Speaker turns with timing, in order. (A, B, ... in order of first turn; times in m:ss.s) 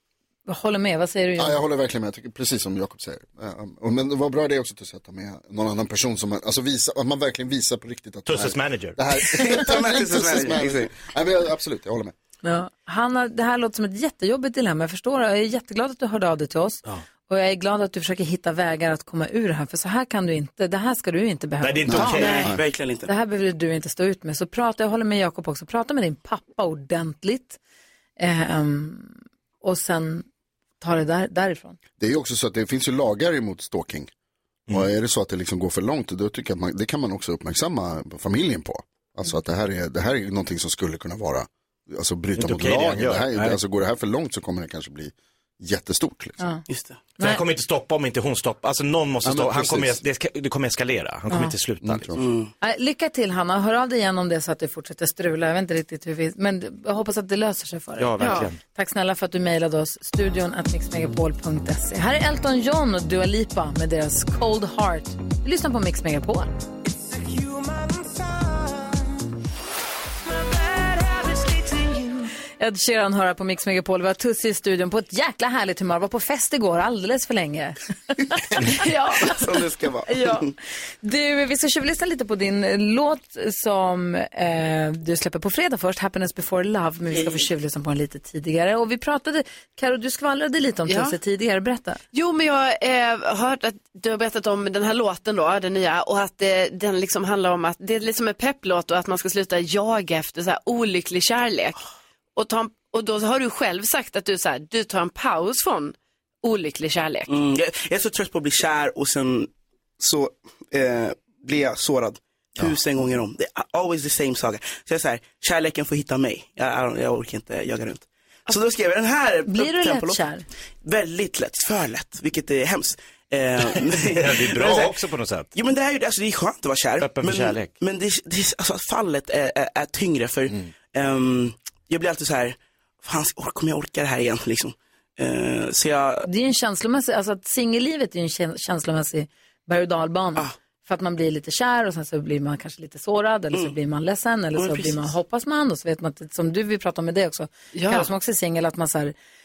0:00.4-0:01.6 A
0:01.4-0:12.1 B
0:08.3-0:09.0 C
0:09.4-0:10.9 D
0:12.4-0:22.5 A
0:21.6-0:22.5 C
0:21.9-0:22.6 B
0:22.0-0:23.1 D
0:23.0-0:27.6 A
0:28.2-0:30.3 A
0:30.8-0:31.8 A
0:32.0-0:34.1 B
0:34.7-0:46.4 B
0:42.4-0:43.6 C
0:46.7-0:47.0 D
0:47.2-0:52.1 C
0:49.2-0:50.0 B
0:51.8-0:52.2 B
0:52.2-0:52.5 D
0:52.6-1:06.5 A
0:58.0-0:58.6 C
0:58.2-0:58.5 E
1:12.6-1:19.5 A
1:19.2-1:20.5 D
1:20.1-1:20.5 A
1:21.0-1:32.0 A
1:30.9-1:31.2 E
1:32.1-1:41.8 E
1:42.4-1:47.3 E
1:47.3-2:00.2 D
1:59.5-2:00.4 A
2:00.8-2:05.0 D
2:03.8-2:05.5 C
2:05.6-2:16.3 D
2:07.0-2:07.8 C
2:16.2-2:29.1 A
2:24.5-2:25.1 D
2:27.7-2:28.1 E